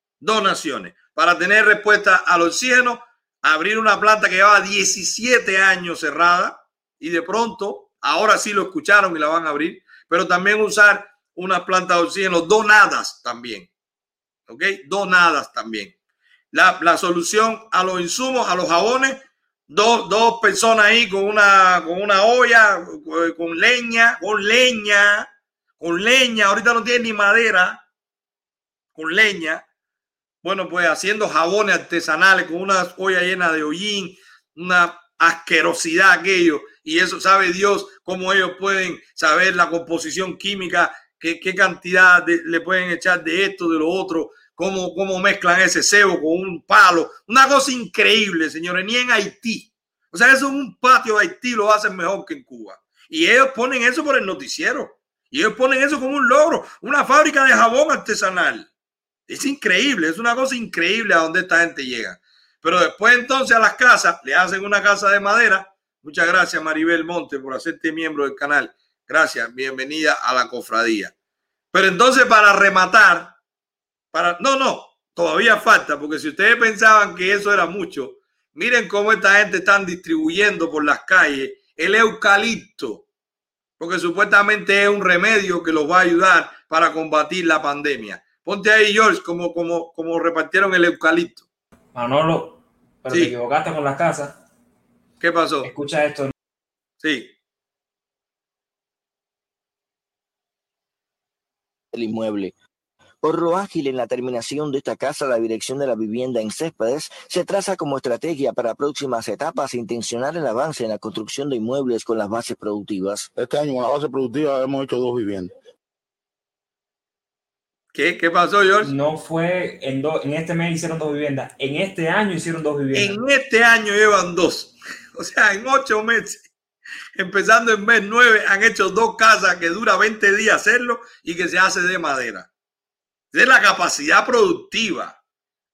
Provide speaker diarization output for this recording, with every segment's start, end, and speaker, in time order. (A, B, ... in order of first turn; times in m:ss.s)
0:00.2-0:13.7 A
0:14.5-0:15.9 A
0:16.5-0:25.3 A
0:25.8-0:27.8 A
0:29.0-0:29.6 A
0:30.4-0:58.7 A
0:59.3-1:11.1 A
1:11.7-1:13.3 A
1:14.1-1:23.0 A
1:23.8-1:31.4 A
1:31.9-1:34.4 B
1:33.1-1:33.3 A
1:35.2-1:35.7 A
1:35.6-1:36.3 B
1:37.0-1:37.3 A
1:41.9-1:42.5 C
1:43.2-1:53.3 C
1:53.3-1:55.5 D
1:57.9-1:58.9 A
1:58.8-2:03.2 B
2:02.9-2:06.5 A
2:07.2-2:12.5 A
2:13.3-2:15.2 A